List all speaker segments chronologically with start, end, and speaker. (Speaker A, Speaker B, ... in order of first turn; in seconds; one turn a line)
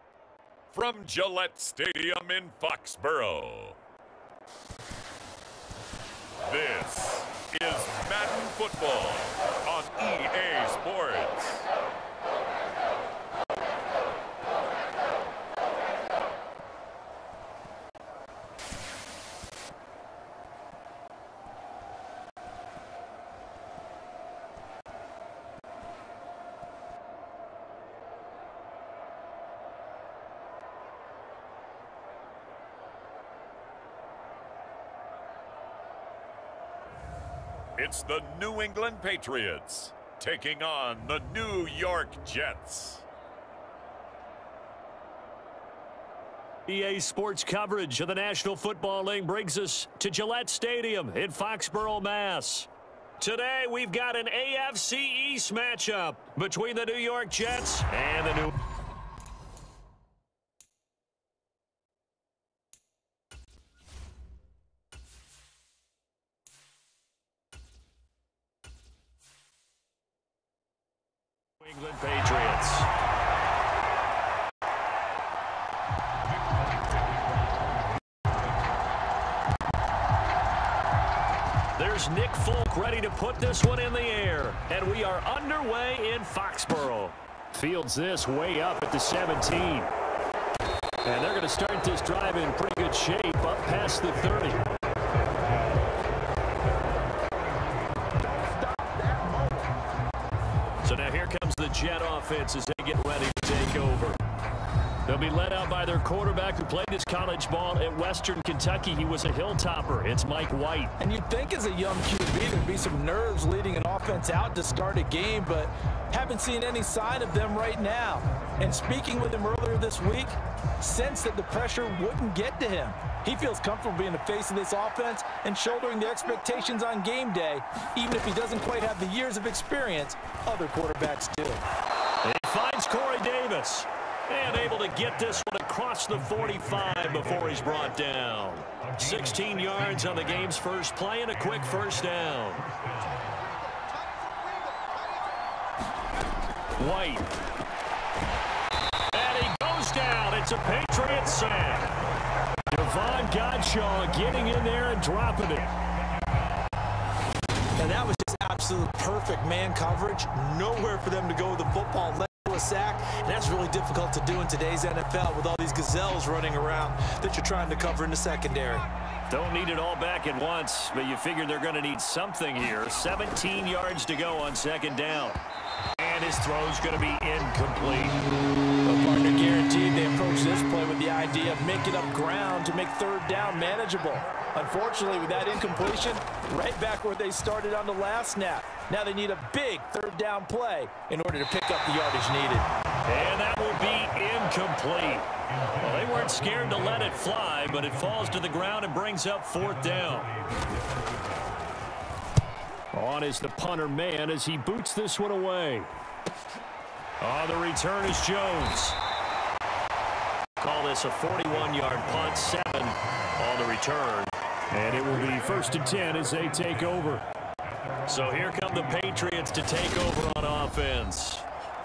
Speaker A: 0.7-3.8
Speaker A: 6.4-11.7
Speaker A: 37.8-43.0
Speaker B: 46.7-58.6
Speaker B: 71.6-72.9
Speaker B: 81.8-89.9
Speaker B: 91.0-94.7
Speaker C: 98.3-99.7
Speaker B: 100.8-104.2
Speaker B: 105.1-111.0
Speaker C: 111.0-131.6
Speaker B: 132.2-142.7
Speaker B: 146.8-147.3
Speaker B: 149.1-152.0
Speaker B: 152.7-155.7
Speaker C: 157.8-168.9
Speaker B: 169.3-175.4
Speaker B: 176.0-178.2
Speaker C: 178.8-192.7
Speaker B: 193.1-200.3
Speaker B: 202.9-205.9
Speaker B: 207.2-209.0
Speaker B: 210.6-217.2
Speaker B: 218.1-221.4